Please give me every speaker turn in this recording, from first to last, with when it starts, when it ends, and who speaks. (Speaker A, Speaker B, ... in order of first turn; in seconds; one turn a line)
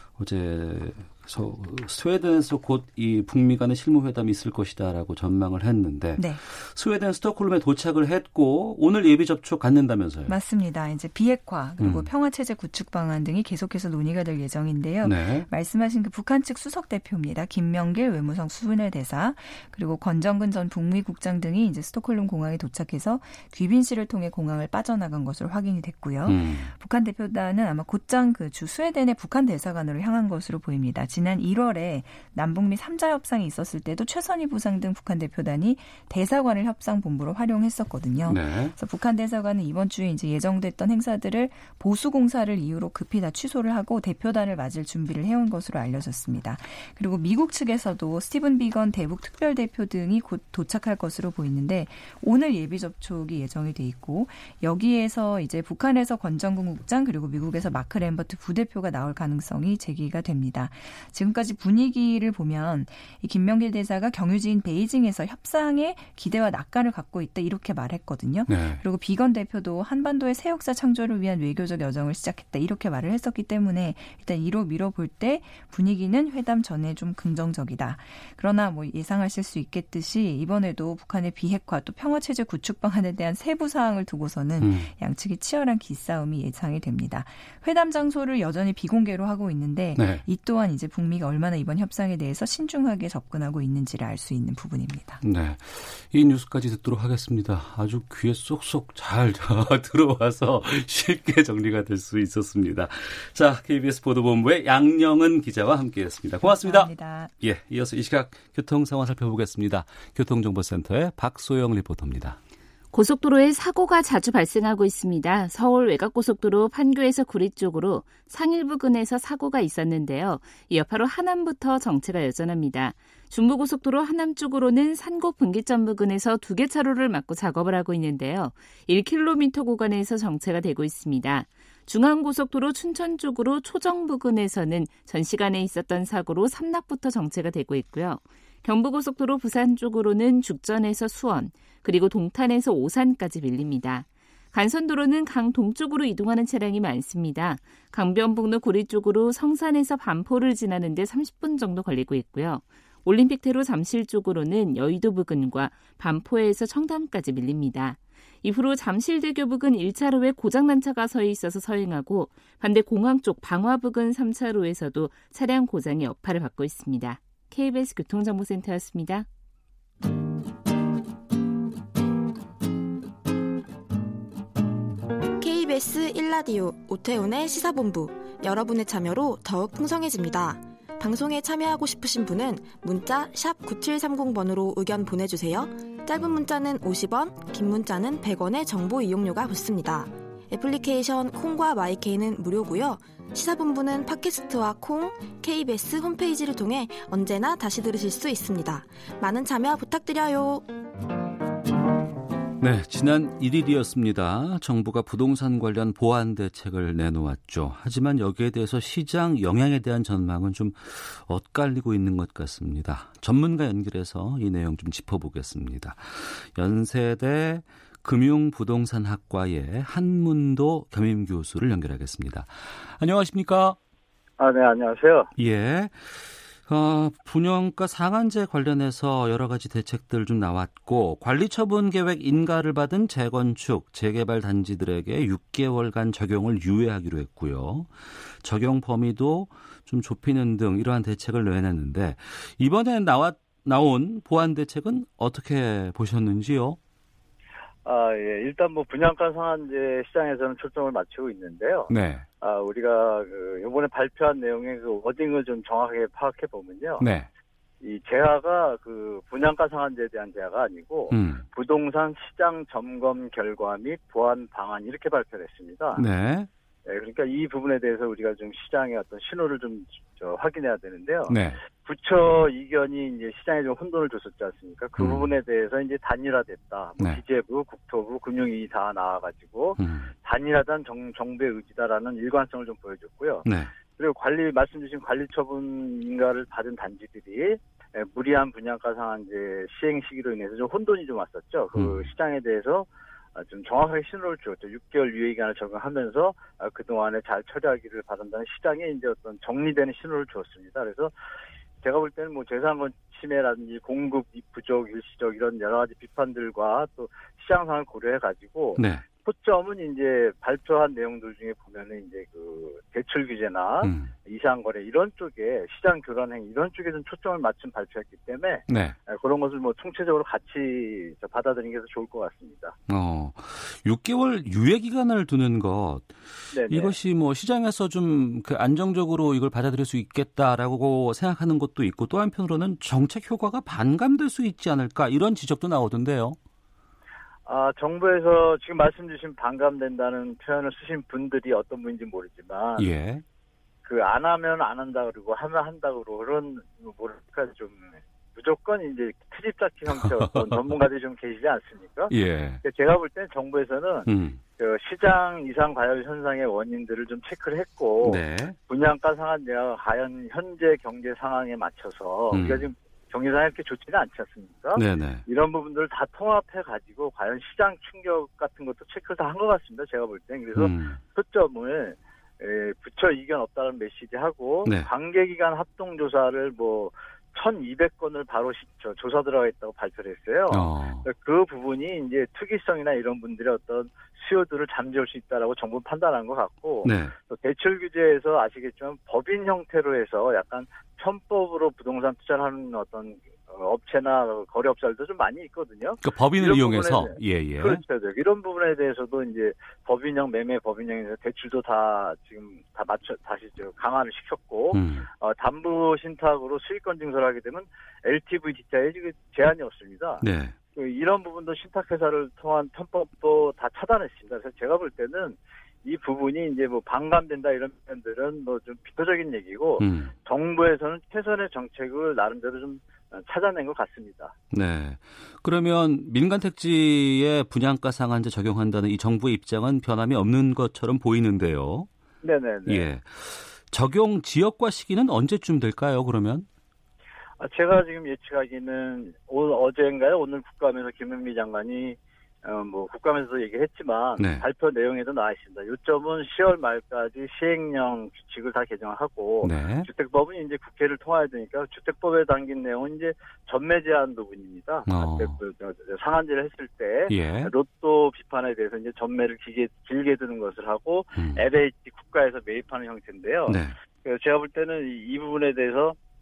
Speaker A: 0.2-10.3
Speaker B: 6.2-6.4
Speaker B: 10.3-95.2
Speaker A: 11.8-12.1
Speaker A: 15.0-15.5
Speaker A: 26.3-26.7
Speaker A: 38.3-38.8
Speaker A: 68.5-68.8
Speaker A: 84.6-84.9
Speaker A: 90.0-90.2
Speaker A: 95.2-112.4
Speaker B: 106.4-107.3
Speaker C: 112.9-169.3
Speaker D: 175.4-200.7
Speaker A: 202.6-223.8
Speaker E: 224.4-225.3
Speaker A: 225.4-237.9
Speaker A: 238.4-246.8
Speaker E: 247.8-251.9
Speaker A: 251.9-252.2
Speaker E: 252.4-257.1
Speaker A: 257.0-257.3
Speaker E: 257.8-266.0
Speaker A: 261.1-261.4
Speaker A: 266.0-266.5
Speaker E: 266.9-283.4
Speaker A: 271.3-271.6
Speaker A: 275.0-275.3
Speaker A: 279.8-280.1
Speaker A: 283.4-283.7
Speaker E: 284.0-301.1
Speaker A: 291.8-292.1
Speaker E: 301.8-322.8
Speaker A: 308.8-309.0
Speaker A: 313.8-314.1
Speaker A: 318.7-319.0
Speaker A: 322.9-336.4
Speaker E: 326.5-326.9
Speaker E: 337.5-342.9
Speaker A: 342.8-343.2
Speaker E: 343.9-410.2
Speaker A: 352.1-352.6
Speaker A: 354.1-354.4
Speaker A: 358.0-358.6
Speaker A: 362.3-362.7
Speaker A: 364.8-365.2
Speaker A: 370.6-371.0
Speaker A: 380.5-381.1
Speaker A: 386.8-387.1
Speaker A: 396.0-397.8
Speaker A: 404.7-405.1
Speaker A: 410.2-410.6
Speaker E: 410.8-424.3
Speaker A: 419.8-420.1
Speaker A: 424.5-431.9
Speaker E: 432.2-432.9
Speaker A: 432.7-436.5
Speaker E: 437.4-466.0
Speaker A: 444.2-444.4
Speaker A: 449.4-449.9
Speaker A: 454.9-455.4
Speaker A: 457.1-457.5
Speaker A: 461.2-461.4
Speaker A: 463.5-463.8